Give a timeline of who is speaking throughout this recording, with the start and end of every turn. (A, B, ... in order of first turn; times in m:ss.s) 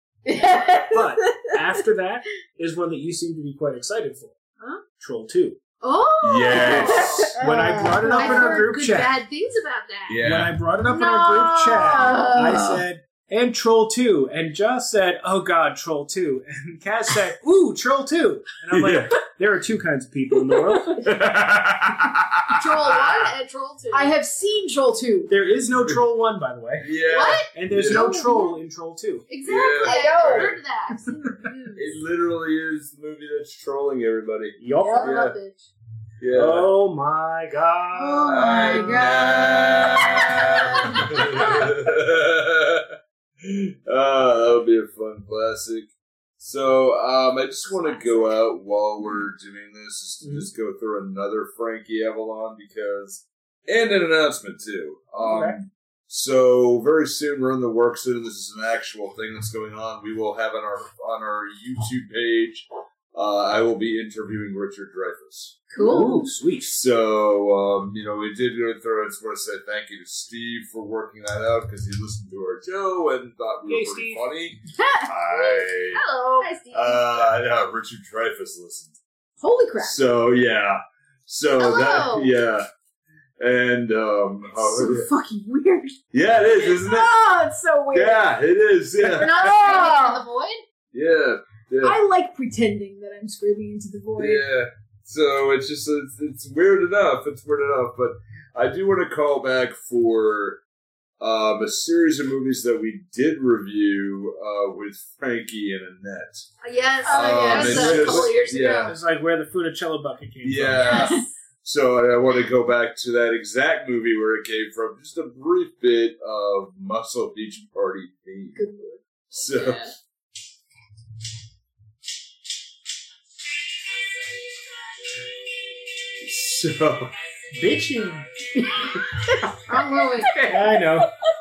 0:00.3-0:01.5 A
0:00.9-0:04.4 B
0:05.0-0:05.6 B
0:05.8-0:07.4 C
0:06.2-0:07.4 D
0:07.4-0:08.6 A
0:07.4-0:09.2 B
0:08.1-0:10.3 C
0:10.1-0:10.6 D
0:10.2-0:21.0 B
0:10.8-0:12.5 C
0:11.7-0:12.8 A
0:18.7-0:19.1 D
0:20.3-0:21.0 C
0:21.0-0:23.3 D
0:22.6-0:24.1 C
0:23.9-0:25.3 A
0:25.3-0:26.9 B
0:26.8-0:28.0 D
0:27.1-0:28.5 C
0:27.5-0:29.2 B
0:28.0-0:28.6 A
0:29.3-0:31.8 C
0:29.4-0:30.6 D
0:29.8-0:30.6 A
0:31.7-0:35.4 D
0:34.6-0:35.3 B
0:34.8-0:35.7 C
0:34.8-0:35.0 A
0:36.2-0:36.7 D
0:36.3-0:38.8 B
0:37.9-0:41.4 A
0:38.3-1:05.6 D
0:50.2-0:50.5 B
0:55.2-0:55.6 B
1:05.7-1:06.3 A
1:05.8-1:06.8 B
1:06.7-1:16.0 D
1:13.7-1:14.2 B
1:14.7-1:15.1 A
1:15.3-1:16.6 C
1:16.4-1:17.0 A
1:16.7-1:19.0 D
1:19.4-1:20.0 A
1:19.8-1:22.7 D
1:21.6-1:22.3 C
1:23.4-1:25.1 D
1:24.6-1:26.0 A
1:26.1-1:27.1 D
1:26.5-1:28.2 A
1:27.9-1:29.9 D
1:29.0-1:30.2 A
1:29.2-1:30.6 C
1:30.9-1:32.0 D
1:31.8-1:34.4 A
1:34.2-1:40.6 D
1:41.2-1:46.4 D
1:46.6-1:49.0 C
1:47.0-1:48.3 A
1:47.1-1:48.9 D
1:47.6-1:48.3 B
1:48.8-1:51.0 B
1:50.4-1:58.6 D
1:50.8-1:51.2 C
1:50.8-1:51.3 A
1:58.5-1:59.0 A
1:59.3-1:59.9 D
1:59.3-1:59.9 C
2:06.2-2:07.1 D
2:07.5-2:08.5 B
2:08.9-2:09.6 A
2:09.6-2:10.6 C
2:10.4-2:11.1 B